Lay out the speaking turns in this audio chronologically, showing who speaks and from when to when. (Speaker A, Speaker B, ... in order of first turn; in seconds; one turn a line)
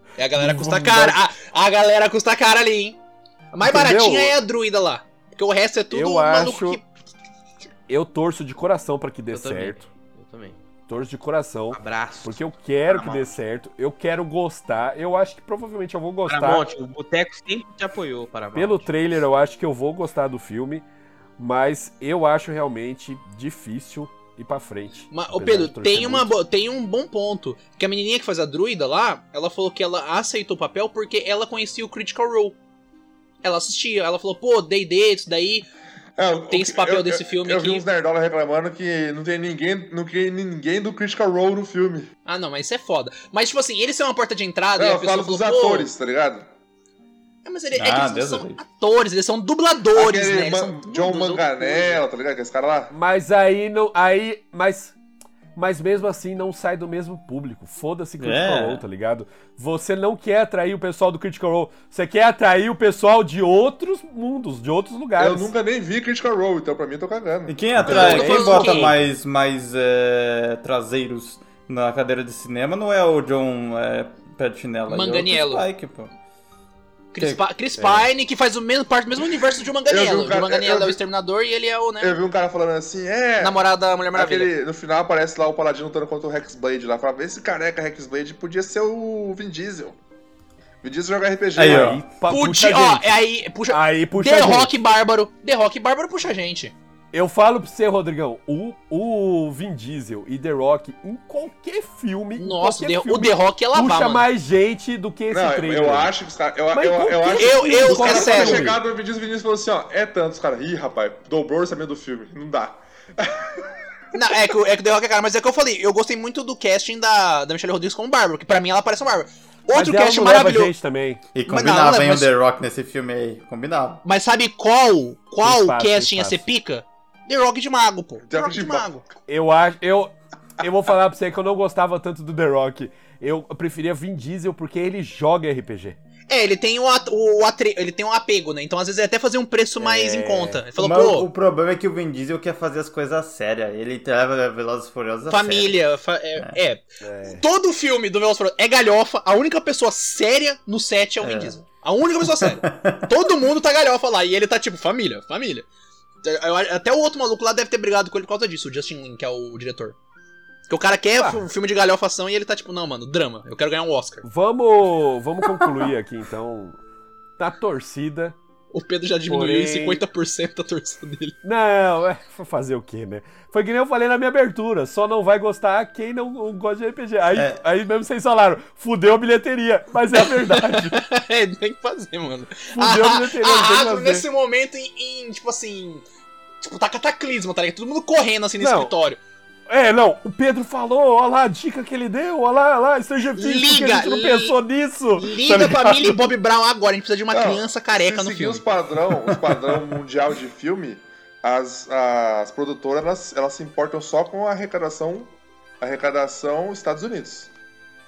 Speaker A: 0.2-3.0
Speaker B: 0.3-1.2
Speaker A: 3.5-6.8
Speaker B: 3.6-4.3
Speaker B: 5.9-6.8
Speaker B: 7.9-9.8
Speaker C: 9.3-10.6
Speaker B: 10.9-16.6
Speaker C: 11.7-12.4
Speaker D: 12.9-13.4
Speaker C: 16.3-18.9
Speaker B: 18.5-20.8
Speaker B: 21.4-26.3
Speaker A: 25.1-32.5
Speaker A: 33.4-35.7
Speaker E: 36.2-42.1
Speaker A: 36.5-37.9
Speaker A: 42.2-45.9
Speaker E: 44.8-46.5
Speaker A: 47.4-52.0
Speaker D: 47.7-48.6
Speaker E: 49.9-52.9
Speaker B: 52.9-54.9
Speaker B: 55.5-65.5
Speaker D: 58.2-58.8
Speaker E: 65.2-67.6
Speaker D: 67.5-76.1
Speaker B: 67.8-69.1
Speaker A: 67.8-68.9
Speaker A: 74.9-75.7
Speaker A: 77.1-82.2
Speaker D: 77.2-77.4
Speaker B: 77.8-78.1
Speaker E: 79.9-81.0
Speaker E: 82.0-83.6
Speaker A: 83.4-84.5
Speaker E: 84.1-90.0
Speaker E: 90.8-92.0
Speaker D: 91.5-92.0
Speaker B: 91.6-93.1
Speaker A: 92.3-96.7
Speaker B: 93.7-94.7
Speaker B: 97.1-106.1
Speaker A: 102.4-104.3
Speaker E: 105.3-113.7
Speaker B: 106.7-108.8
Speaker A: 107.3-108.7
Speaker A: 114.1-120.7
Speaker B: 119.7-121.2
Speaker D: 121.3-124.0
Speaker A: 121.5-122.3
Speaker A: 124.0-129.0
Speaker B: 125.4-126.5
Speaker E: 128.3-128.9
Speaker B: 129.3-136.0
Speaker A: 136.3-141.3
Speaker B: 139.8-140.7
Speaker D: 140.8-145.8
Speaker A: 145.3-155.7
Speaker B: 147.0-147.4
Speaker D: 151.2-151.6
Speaker D: 152.4-153.1
Speaker A: 156.2-159.9
Speaker A: 160.7-164.2
Speaker B: 161.2-161.4
Speaker B: 164.2-166.8
Speaker B: 167.4-168.3
Speaker A: 168.7-171.3
Speaker B: 169.3-170.0
Speaker B: 171.4-181.0
Speaker D: 177.3-177.6
Speaker A: 180.1-186.0
Speaker B: 182.7-184.2
Speaker A: 186.6-189.2
Speaker B: 188.6-188.9
Speaker B: 189.7-196.3
Speaker A: 193.3-194.5
Speaker A: 195.2-198.6
Speaker E: 197.3-207.5